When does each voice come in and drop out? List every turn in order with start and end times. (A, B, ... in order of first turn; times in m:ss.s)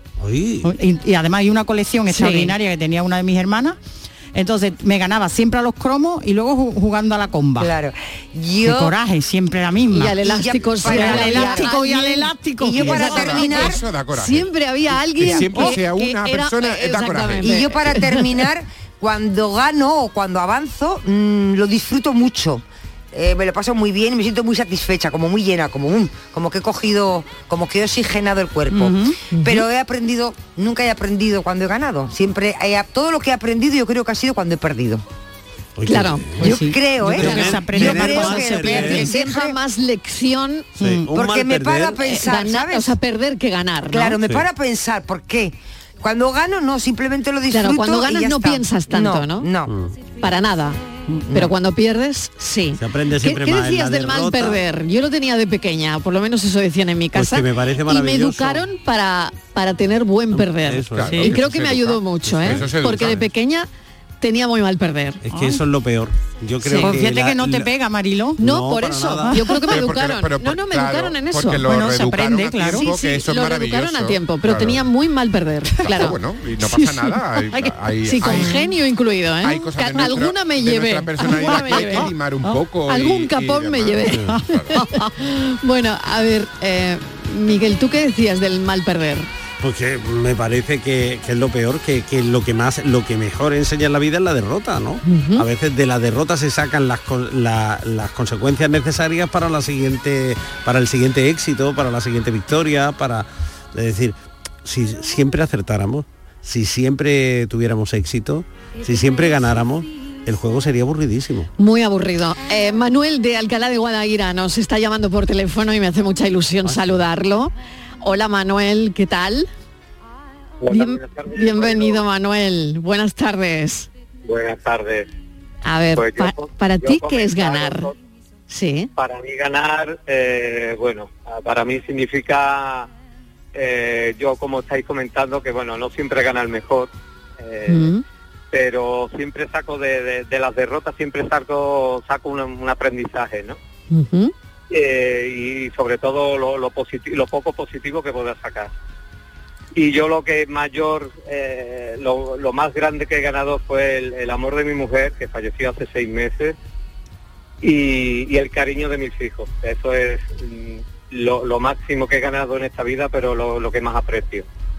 0:00.2-0:00.7 A
0:00.6-0:03.8 B
0:02.1-0:02.6 C
0:04.3-0:07.8 B
0:07.6-0:09.0 D
0:08.6-0:10.2 B
0:09.9-0:18.3 C
0:10.2-0:11.8 D
0:10.8-0:13.3 B
0:12.6-0:13.8 D
0:12.8-0:14.5 E
0:15.2-0:18.0 E
0:15.5-0:15.8 B
0:17.4-0:35.0 D
0:28.7-0:29.2 B
0:29.3-0:29.6 C
0:35.8-0:39.1 A
0:35.8-0:36.3 C
0:36.4-0:39.0 B
0:36.4-0:39.6 D
0:38.6-0:40.7 C
0:40.8-0:42.0 A
0:40.8-0:41.1 B
0:41.1-0:43.0 D
0:42.0-0:44.2 C
0:43.9-0:49.7 D
0:47.5-0:49.5 C
0:49.7-0:50.0 A
0:50.2-0:50.8 C
0:51.3-1:03.7 C
0:52.8-0:54.6 A
0:57.1-0:58.7 A
1:00.3-1:01.4 A
1:00.9-1:03.3 E
1:02.2-1:03.1 A
1:04.2-1:05.2 C
1:05.2-1:07.7 A
1:05.3-1:05.6 B
1:06.6-1:07.0 C
1:06.8-1:08.4 B
1:08.4-1:11.7 C
1:08.4-1:09.4 A
1:09.3-1:09.6 B
1:09.6-1:14.8 E
1:11.6-1:12.9 B
1:12.7-1:16.2 C
1:15.8-1:18.7 E
1:18.0-1:22.1 C
1:19.4-1:24.8 E
1:21.3-1:22.6 B
1:22.9-1:29.3 C
1:24.1-1:24.4 A
1:29.6-1:51.5 A
1:35.0-1:35.4 C
1:51.6-1:59.5 C
1:56.6-1:57.0 A
2:00.6-2:02.0 F
2:00.7-2:03.9 C
2:04.2-2:05.1 F
2:05.6-2:07.9 C
2:06.0-2:07.9 F
2:08.5-2:08.9 C
2:09.0-2:12.9 F
2:13.5-2:17.9 F
2:17.7-2:18.0 C
2:18.5-2:23.6 F
2:23.9-2:24.3 C
2:24.7-2:28.7 F
2:29.8-2:36.6 F
2:37.6-2:44.5 F